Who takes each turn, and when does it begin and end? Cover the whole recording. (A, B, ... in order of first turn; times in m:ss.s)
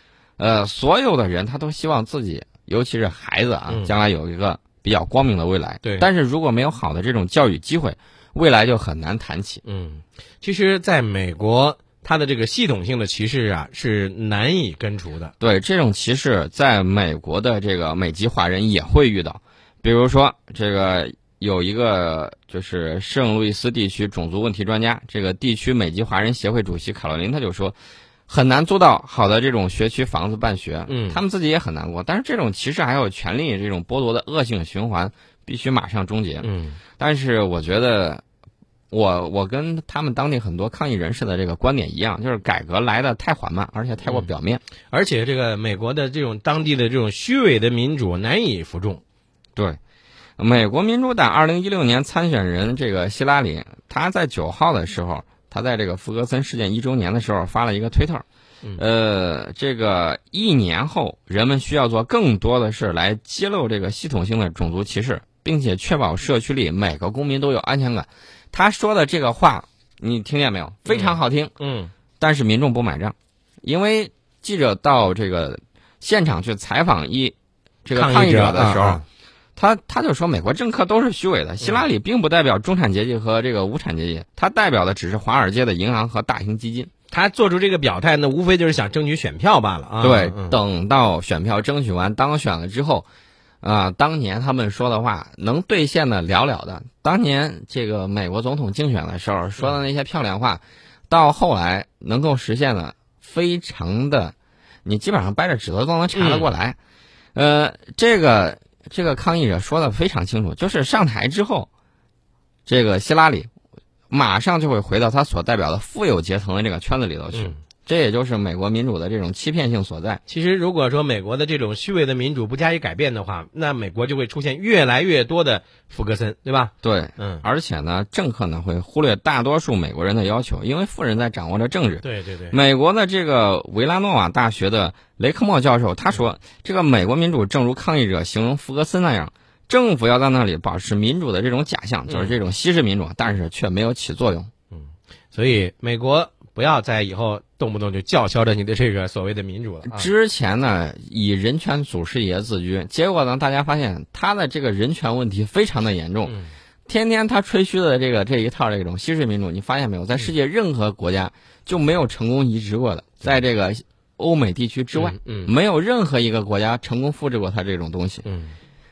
0:00.4-0:09.6 A
0:05.8-0:06.1 B
0:09.6-0:15.3 B
0:15.4-0:27.8 A
0:28.3-0:38.2 A
0:30.9-0:31.2 B
0:36.4-0:36.8 B
0:38.9-0:44.6 A
0:44.9-0:49.0 B
0:50.4-0:58.2 A
0:58.8-1:11.5 A
1:10.9-1:11.9 B
1:12.2-1:19.0 A
1:17.9-1:19.0 B
1:19.6-1:26.9 A
1:27.1-1:30.6 B
1:30.0-1:33.1 A
1:33.6-1:46.8 A
1:46.1-1:46.5 B
1:47.3-1:51.7 A
1:52.6-1:53.5 A
1:54.1-2:00.2 A
1:57.3-1:57.6 B
2:00.3-2:07.4 B
2:06.8-2:24.5 A
2:12.0-2:12.6 B
2:22.1-2:22.3 B
2:24.7-2:30.1 B
2:29.9-2:36.3 A
2:36.2-2:36.5 B
2:36.9-2:48.2 A
2:44.9-2:45.5 B
2:48.2-2:48.5 B